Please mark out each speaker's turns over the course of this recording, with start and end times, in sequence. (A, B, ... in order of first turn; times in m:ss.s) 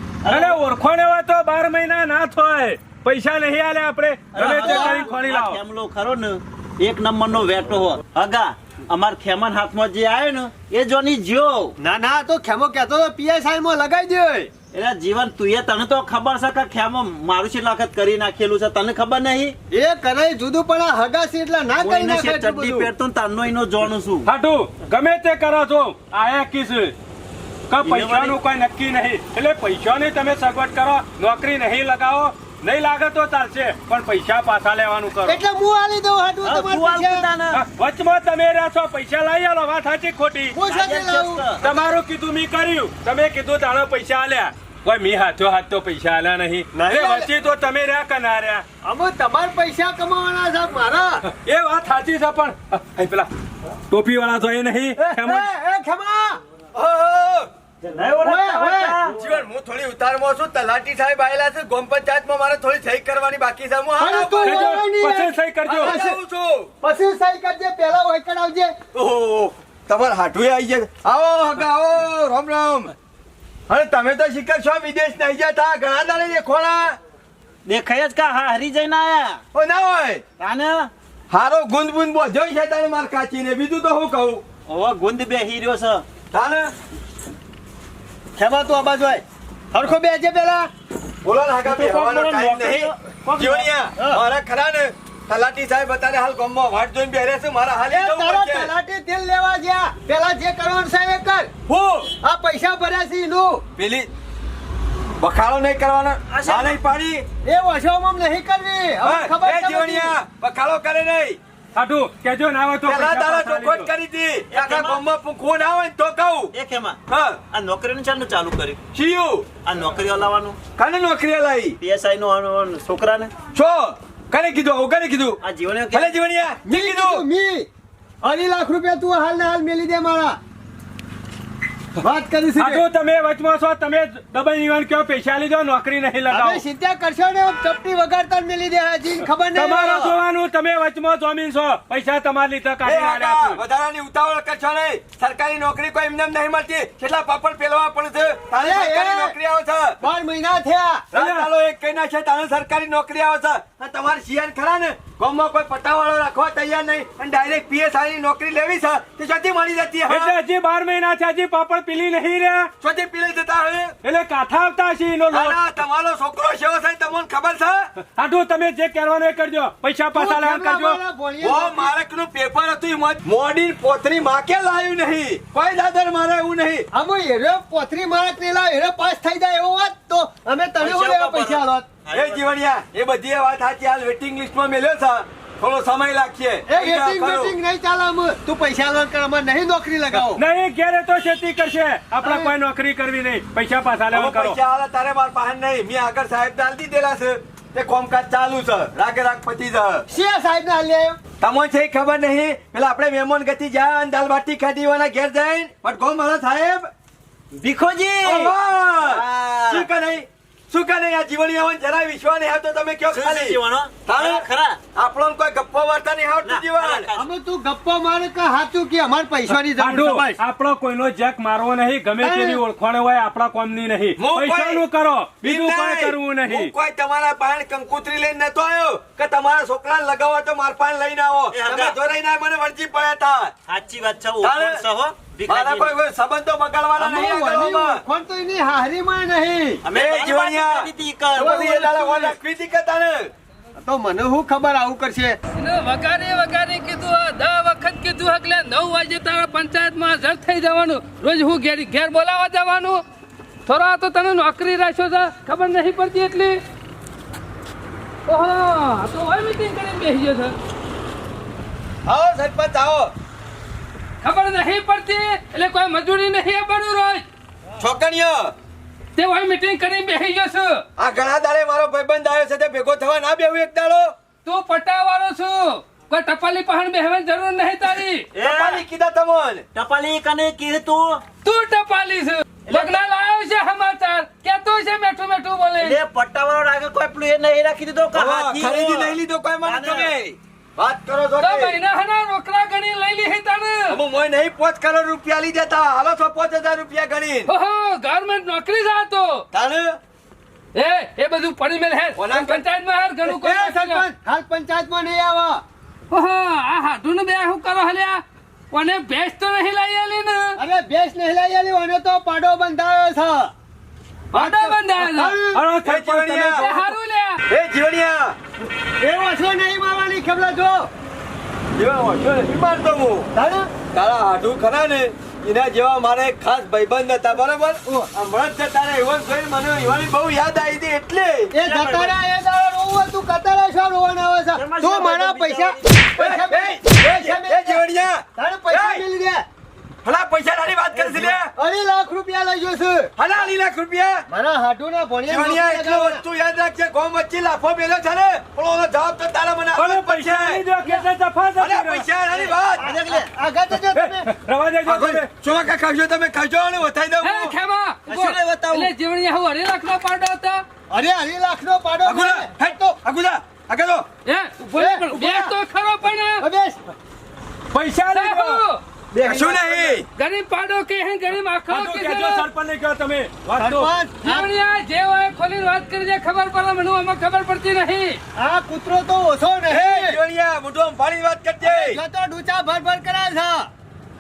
0:00.2-0:00.6 A
0:00.3-0:05.6 B
0:04.3-0:11.8 A
0:04.4-0:05.0 C
0:11.8-0:14.5 C
0:14.7-0:19.6 A
0:19.7-0:22.9 C
0:21.8-0:24.3 A
0:24.2-0:27.0 B
0:27.7-0:35.4 B
0:27.8-0:28.4 A
0:35.2-0:37.3 C
0:36.4-0:37.6 A
0:37.5-0:40.6 B
0:40.5-0:41.4 C
0:40.7-0:41.6 A
0:41.6-0:48.6 B
0:46.7-0:47.3 C
0:48.8-0:51.2 C
0:51.2-0:53.3 B
0:53.9-0:55.5 B
0:55.0-0:56.4 C
0:56.8-0:57.5 D
0:57.9-0:59.2 A
0:58.2-0:59.0 C
0:59.2-1:04.8 D
1:04.0-1:06.2 C
1:04.4-1:06.0 B
1:05.7-1:06.7 D
1:06.8-1:08.8 C
1:09.0-1:12.9 D
1:13.7-1:17.0 D
1:17.7-1:19.4 A
1:19.5-1:20.2 D
1:20.4-1:20.9 A
1:21.3-1:24.4 D
1:24.7-1:26.0 A
1:26.3-1:26.7 D
1:28.4-1:30.7 C
1:31.2-1:38.7 D
1:31.6-1:33.7 A
1:34.0-1:34.2 C
1:37.9-1:41.5 C
1:41.7-1:42.1 D
1:42.1-1:43.6 C
1:43.8-1:44.1 D
1:45.2-1:47.3 D
1:46.3-1:46.7 A
1:47.4-1:50.2 C
1:49.0-1:51.4 D
1:51.8-1:53.9 B
1:52.8-1:56.5 D
1:54.5-1:55.0 A
1:56.5-1:58.8 A
1:57.1-1:57.4 D
1:58.9-1:59.5 D
1:59.6-2:00.6 A
2:00.8-2:01.8 D
2:01.8-2:03.3 A
2:03.6-2:05.4 D
2:05.4-2:06.1 A
2:05.9-2:07.2 D
2:06.6-2:07.7 C
2:08.2-2:10.4 C
2:12.0-2:12.8 C
2:12.6-2:16.6 B
2:16.3-2:20.2 C
2:19.6-2:23.6 B
2:22.8-2:30.0 D
2:28.5-2:29.4 C
2:30.0-2:31.1 C
2:31.1-2:40.3 D
2:31.2-2:31.5 B
2:40.1-2:42.7 B
2:42.8-2:44.0 D
2:44.0-2:45.6 B
2:45.3-2:47.9 D
2:48.0-2:51.0 B
2:50.1-2:52.0 C
2:51.4-2:56.9 D
2:56.9-3:01.9 C
3:00.8-3:02.4 A
3:02.1-3:07.6 D
3:06.7-3:10.4 C
3:10.1-3:14.6 B
3:12.2-3:12.5 C
3:14.1-3:20.1 D
3:20.1-3:21.2 C
3:21.4-3:26.9 D
3:27.5-3:28.5 A
3:28.2-3:37.1 D
3:29.0-3:29.9 A
3:33.1-3:34.8 A
3:36.4-3:37.3 A
3:37.2-3:40.4 C
3:39.7-3:46.7 B
3:42.2-3:42.6 C
3:44.2-3:44.8 D
3:45.4-3:53.5 D
3:51.5-3:52.0 A
3:53.7-3:56.0 A
3:54.4-3:54.8 D
3:55.5-3:58.0 D
3:57.0-3:59.8 C
3:59.8-4:01.7 A
3:59.9-4:03.3 D
4:01.4-4:02.4 C
4:03.8-4:05.4 C
4:05.5-4:13.0 E
4:13.7-4:16.6 E
4:18.3-4:20.6 E
4:22.1-4:23.1 D
4:24.2-4:27.2 E
4:27.8-4:28.5 D
4:29.2-4:30.8 E
4:31.0-4:34.1 D
4:34.4-4:38.3 E
4:38.3-4:38.8 A
4:38.4-4:39.6 D
4:39.7-4:41.2 A
4:41.4-4:46.0 E
4:42.7-4:43.0 A
4:45.8-4:50.1 A
4:48.1-4:51.8 D
4:51.4-4:54.0 E
4:53.9-4:57.5 D
4:57.5-4:59.5 E
4:59.5-5:00.0 D
5:00.8-5:04.0 E
5:02.2-5:02.6 D
5:03.2-5:05.6 C
5:06.1-5:10.6 E
5:10.6-5:13.5 C
5:14.3-5:15.4 E
5:14.4-5:14.7 D
5:15.0-5:15.6 C
5:15.5-5:16.8 B
5:15.8-5:16.7 D
5:16.6-5:17.4 E
5:17.5-5:18.4 D
5:19.0-5:20.9 C
5:21.8-5:23.3 D
5:23.3-5:23.7 C
5:23.8-5:31.5 D
5:27.8-5:28.1 C
5:31.5-5:39.4 C
5:31.6-5:32.2 A
5:34.6-5:36.1 A
5:36.2-5:39.0 D
5:40.0-5:41.5 D
5:41.0-5:41.4 A
5:41.5-5:43.1 C
5:43.2-5:44.3 D
5:44.3-5:46.2 C
5:45.3-5:50.7 D
5:49.7-5:52.1 B
5:51.6-5:52.9 D
5:52.3-5:54.3 C
5:52.8-5:53.3 A
5:53.9-5:55.3 B
5:54.9-5:57.6 D
5:57.2-6:00.6 E
5:58.1-5:58.9 A
6:00.9-6:03.0 C
6:02.0-6:04.1 D
6:04.3-6:06.4 E
6:04.7-6:05.6 C
6:06.4-6:06.8 C
6:07.7-6:08.6 B
6:08.1-6:08.8 E
6:09.2-6:10.0 C
6:09.2-6:10.0 D
6:10.2-6:12.5 E
6:11.7-6:13.9 B
6:13.6-6:14.5 C
6:14.2-6:18.2 E
6:18.4-6:20.2 C
6:19.7-6:22.0 D
6:21.6-6:23.7 C